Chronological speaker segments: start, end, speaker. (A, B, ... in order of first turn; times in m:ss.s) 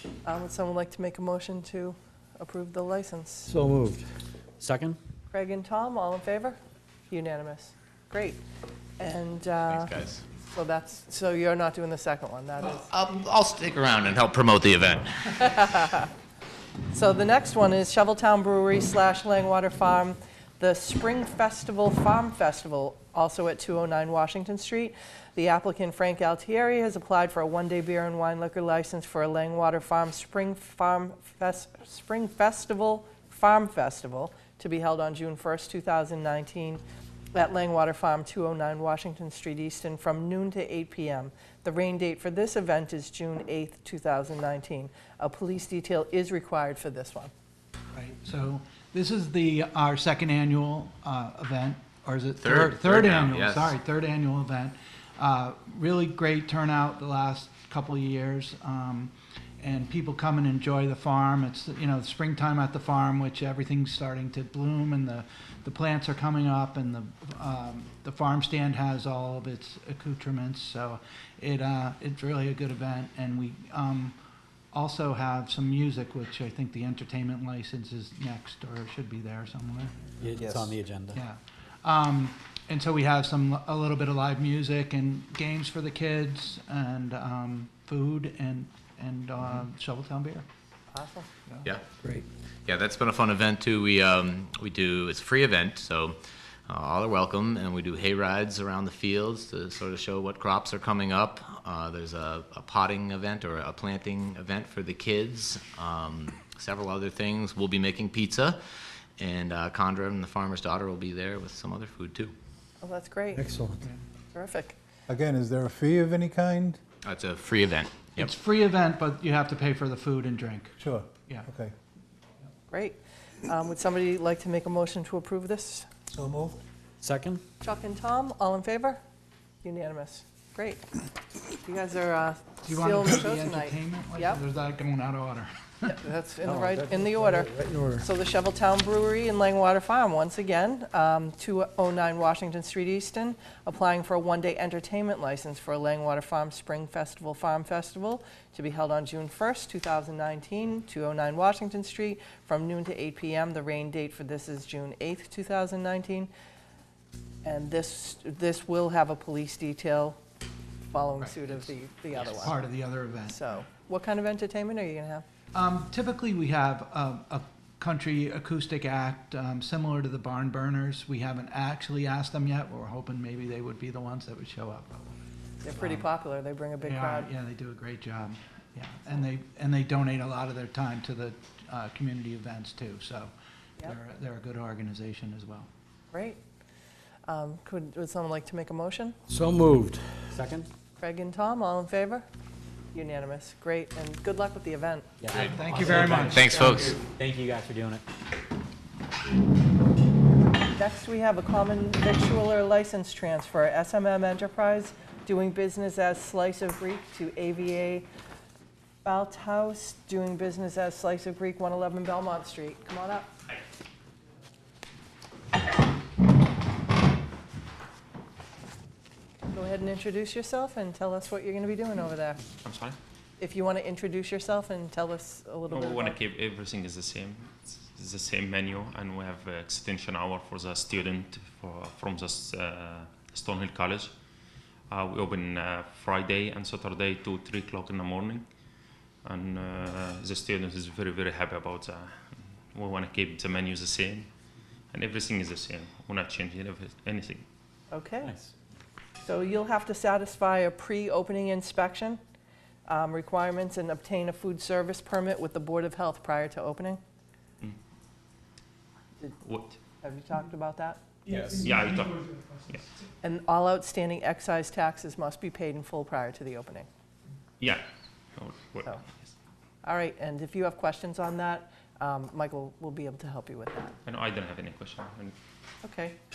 0:00.2-0:03.6 A
0:03.5-0:04.0 B
0:04.6-0:05.0 C
0:05.3-0:06.6 A
0:07.1-0:08.4 A
0:09.0-0:09.9 A
0:09.7-0:10.2 D
0:10.5-0:12.9 A
0:12.7-0:15.6 D
0:15.4-0:16.1 A
0:16.9-0:36.8 A
0:37.3-0:47.3 A
0:47.9-1:14.1 E
0:52.4-0:53.8 D
1:14.7-1:19.9 E
1:20.2-1:21.2 C
1:21.1-1:30.4 E
1:30.9-1:31.3 A
1:32.6-1:36.2 D
1:36.7-1:48.6 D
1:49.2-1:52.3 D
1:52.8-1:53.5 A
1:53.5-1:53.8 B
1:54.3-1:54.8 A
1:55.1-1:56.8 F
1:57.0-1:58.3 D
1:58.2-2:01.5 E
2:00.8-2:01.7 F
2:02.7-2:05.9 A
2:06.1-2:06.6 F
2:07.0-2:07.4 C
2:07.6-2:09.0 A
2:09.6-2:10.8 A
2:11.6-2:14.4 A
2:12.6-2:15.9 E
2:15.8-2:36.3 A
2:16.4-2:17.6 C
2:17.1-2:18.0 B
2:37.4-2:40.2 A
2:40.9-2:42.6 A
2:41.2-2:41.7 E
2:42.3-2:43.4 E
2:43.2-2:45.2 A
2:45.5-2:55.2 E
2:55.6-2:57.3 A
2:55.7-2:56.1 E
2:56.8-3:05.7 E
3:06.1-3:06.4 A
3:07.2-3:09.2 A
3:09.3-3:10.3 B
3:10.3-3:10.7 C
3:11.0-3:12.2 A
3:12.9-3:15.1 A
3:15.2-3:18.0 C
3:15.3-3:16.7 E
3:15.3-3:15.6 D
3:16.2-3:17.0 D
3:20.7-3:28.1 A
3:29.0-3:33.3 A
3:39.5-3:42.4 A
3:42.6-3:43.0 G
3:43.4-3:46.2 A
3:45.7-3:54.1 G
3:54.9-3:58.4 G
3:59.2-4:04.3 G
4:04.9-4:07.4 G
4:07.9-4:08.3 A
4:08.2-4:08.5 C
4:09.2-4:12.2 A
4:12.9-4:17.0 A
4:19.4-4:19.8 G
4:20.0-4:21.0 A
4:21.4-4:22.8 G
4:23.2-4:26.9 A
4:28.4-4:29.1 G
4:29.8-4:34.0 A
4:34.0-4:35.3 G
4:35.8-4:36.2 A